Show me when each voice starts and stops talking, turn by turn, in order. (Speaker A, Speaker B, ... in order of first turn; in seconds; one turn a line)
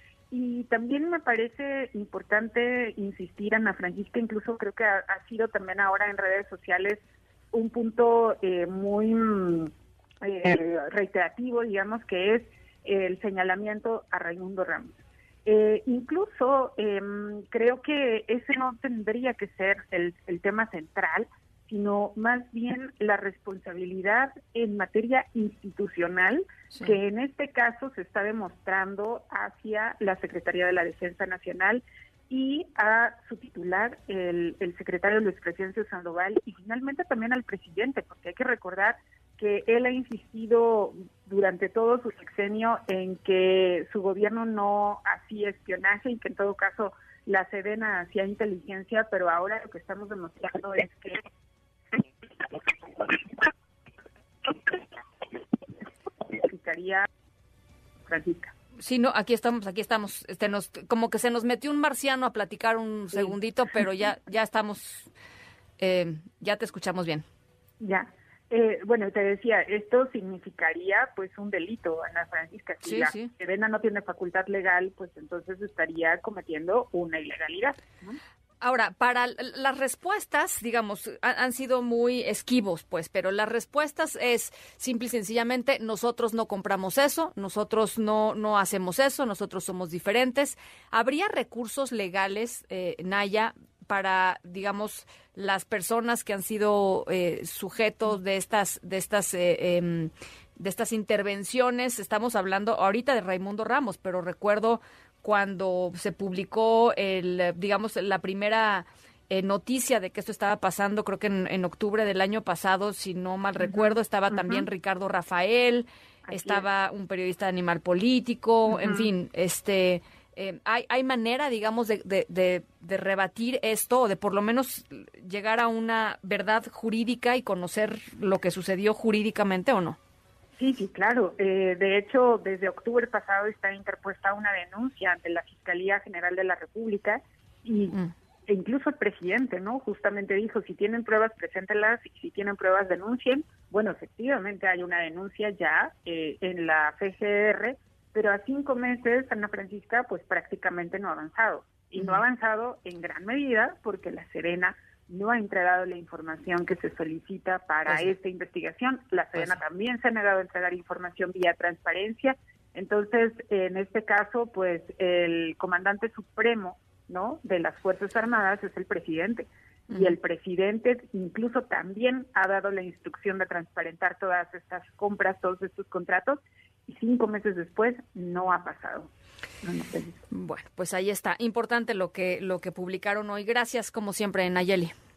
Speaker A: 0.3-51.2
Speaker A: 54.5-54.7
Speaker A: 56.2-57.1
Speaker A: 58.0-58.5
Speaker B: 58.8-65.1
Speaker B: 65.8-67.2
Speaker A: 67.8-78.2
Speaker B: 72.8-73.3
Speaker B: 78.6-130.0
Speaker A: 113.6-114.7
Speaker A: 116.3-116.7
Speaker A: 118.7-119.1
Speaker A: 130.6-179.1
Speaker B: 152.0-152.2
Speaker A: 179.6-180.2
Speaker B: 180.3-184.9